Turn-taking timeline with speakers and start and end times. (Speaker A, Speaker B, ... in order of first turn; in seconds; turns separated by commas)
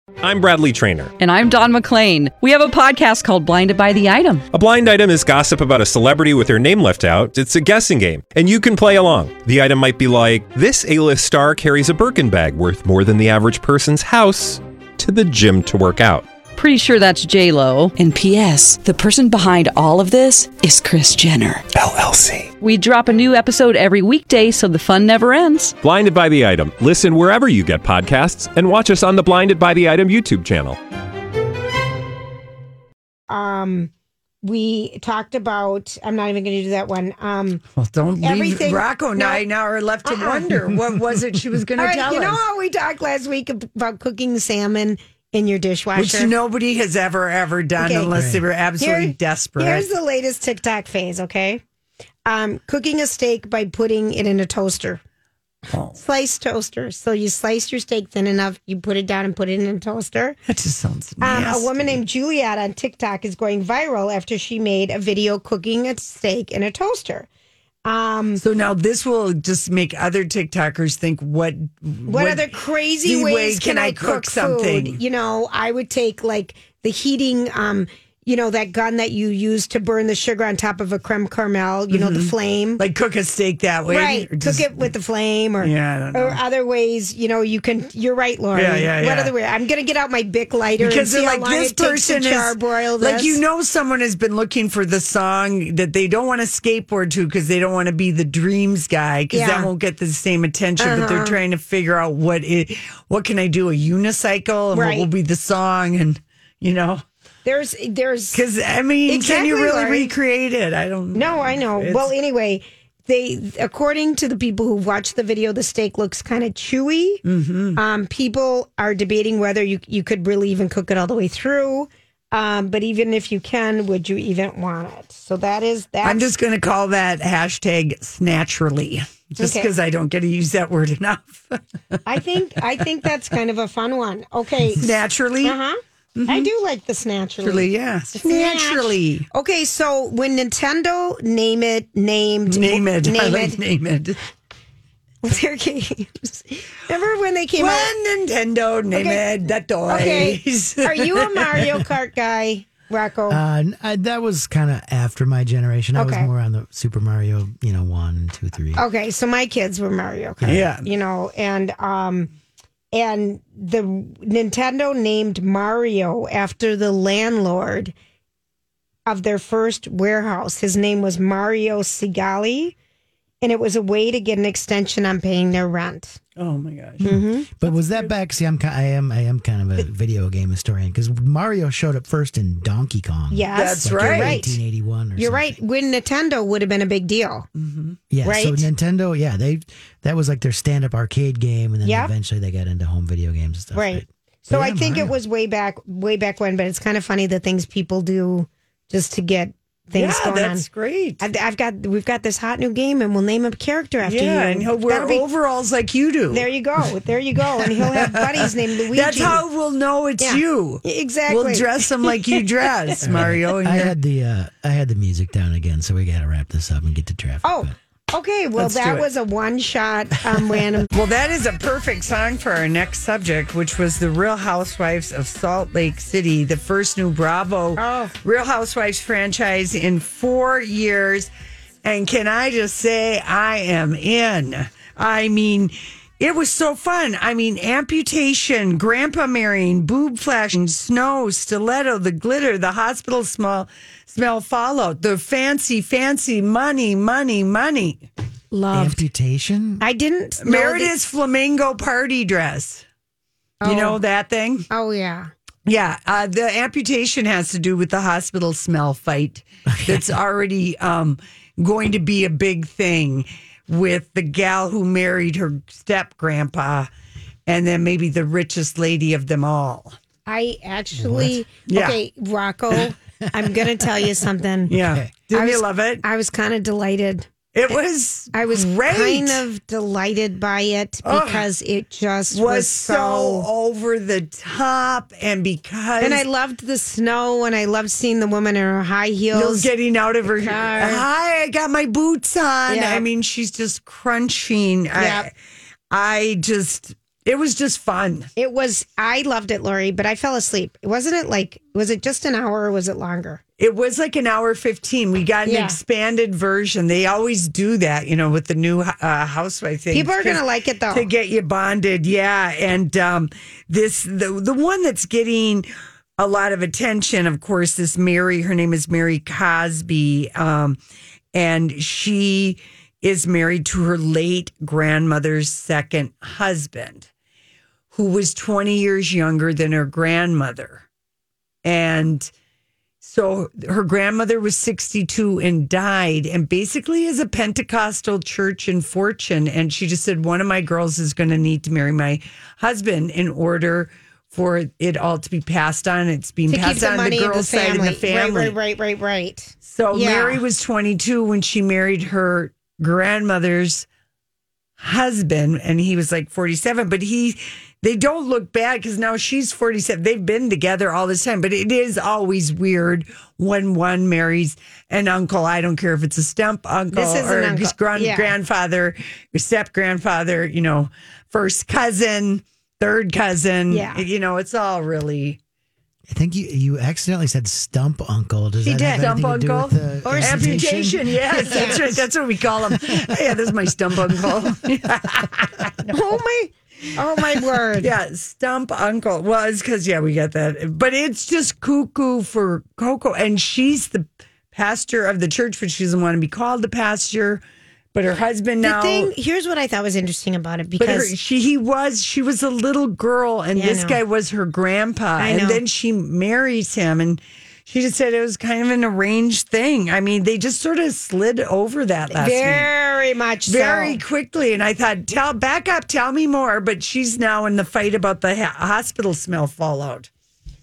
Speaker A: 0.2-1.1, Speaker B: 1.2-4.5, Speaker A: 4.5-16.2, Speaker B: 16.6-18.0, Speaker C: 18.0-21.7, Speaker B: 19.2-20.1, Speaker A: 21.8-22.5, Speaker B: 22.6-25.8, Speaker A: 25.8-30.8, Speaker D: 33.3-33.9, Speaker D: 34.4-37.6, Speaker E: 37.8-42.4, Speaker D: 38.2-39.4, Speaker D: 40.0-40.5, Speaker D: 41.8-46.3, Speaker E: 46.0-49.9, Speaker D: 47.8-48.1, Speaker F: 48.1-48.4, Speaker D: 48.8-51.6, Speaker D: 52.3-55.0, Speaker E: 55.7-56.0, Speaker D: 56.0-60.4, Speaker E: 60.5-62.0, Speaker D: 61.2-67.3, Speaker D: 67.8-68.4, Speaker E: 68.4-72.5, Speaker D: 72.1-82.8, Speaker E: 73.0-75.0, Speaker E: 81.9-84.9, Speaker D: 83.9-93.4, Speaker E: 85.6-86.4, Speaker E: 88.5-89.3, Speaker E: 90.8-107.0, Speaker D: 99.3-99.7, Speaker D: 100.8-101.4, Speaker D: 104.7-105.1, Speaker D: 107.5-108.4, Speaker E: 108.3-112.1, Speaker D: 109.1-110.1, Speaker D: 111.2-117.2, Speaker E: 117.2-117.8, Speaker D: 117.8-126.3, Speaker E: 126.0-132.0, Speaker D: 129.4-129.7, Speaker D: 132.1-134.9, Speaker E: 134.8-135.6, Speaker D: 135.4-143.6, Speaker E: 136.2-136.5, Speaker E: 137.4-139.3, Speaker E: 142.5-144.2, Speaker D: 145.2-147.9, Speaker E: 147.6-151.7, Speaker D: 148.9-149.3, Speaker D: 149.9-153.4, Speaker F: 153.3-158.8, Speaker D: 156.0-156.3, Speaker D: 158.8-162.3, Speaker E: 160.4-160.9, Speaker D: 162.9-167.9, Speaker D: 169.1-172.8, Speaker D: 173.4-176.2, Speaker E: 176.4-177.1, Speaker F: 177.0-185.6, Speaker D: 177.0-177.5, Speaker E: 177.6-178.1, Speaker D: 183.3-184.6, Speaker E: 183.5-184.4, Speaker D: 185.2-187.5, Speaker E: 187.6-188.0, Speaker F: 188.1-195.1, Speaker D: 188.2-188.7, Speaker D: 191.8-192.1, Speaker D: 193.8-200.7, Speaker E: 199.9-201.2, Speaker D: 201.2-205.2, Speaker E: 204.0-206.5, Speaker D: 206.3-209.4, Speaker E: 207.6-213.9, Speaker D: 210.2-212.4, Speaker F: 213.0-217.7, Speaker D: 217.4-220.9, Speaker E: 218.6-219.1, Speaker E: 220.9-231.3, Speaker D: 227.8-228.2, Speaker E: 231.8-248.1, Speaker D: 248.5-249.0, Speaker F: 248.7-249.8, Speaker D: 249.8-250.9, Speaker E: 250.4-252.8, Speaker D: 253.6-254.0, Speaker E: 253.7-254.7, Speaker D: 254.7-255.3, Speaker E: 255.7-266.9, Speaker F: 259.7-260.0, Speaker E: 267.5-270.0, Speaker D: 270.3-274.7, Speaker F: 270.9-271.4, Speaker E: 271.7-272.0, Speaker E: 274.7-276.0, Speaker F: 274.8-275.1, Speaker D: 275.3-277.3, Speaker E: 277.5-279.4, Speaker D: 278.3-283.5, Speaker E: 281.1-281.5, Speaker E: 282.3-286.2, Speaker D: 286.0-289.7, Speaker E: 289.3-295.3, Speaker D: 290.3-291.1, Speaker D: 292.7-293.1, Speaker D: 294.9-295.3, Speaker E: 295.9-298.3, Speaker D: 298.4-303.4, Speaker E: 303.6-320.8, Speaker D: 305.4-305.8, Speaker D: 309.9-311.1, Speaker E: 321.3-327.1, Speaker E: 327.9-330.9, Speaker E: 331.6-332.3, Speaker E: 333.0-348.6, Speaker D: 346.5-350.4, Speaker E: 349.6-353.9, Speaker E: 354.8-375.4, Speaker D: 366.9-368.3, Speaker D: 373.7-374.0, Speaker F: 376.1-382.0, Speaker D: 378.6-379.1, Speaker E: 378.9-385.9, Speaker D: 380.0-380.8, Speaker D: 381.4-381.8, Speaker F: 382.7-383.0, Speaker D: 385.9-387.9, Speaker E: 387.8-397.4, Speaker E: 397.9-399.1, Speaker D: 398.6-401.1, Speaker E: 400.8-412.7, Speaker D: 403.6-404.0, Speaker D: 405.2-405.6, Speaker D: 412.1-414.0, Speaker E: 413.5-420.1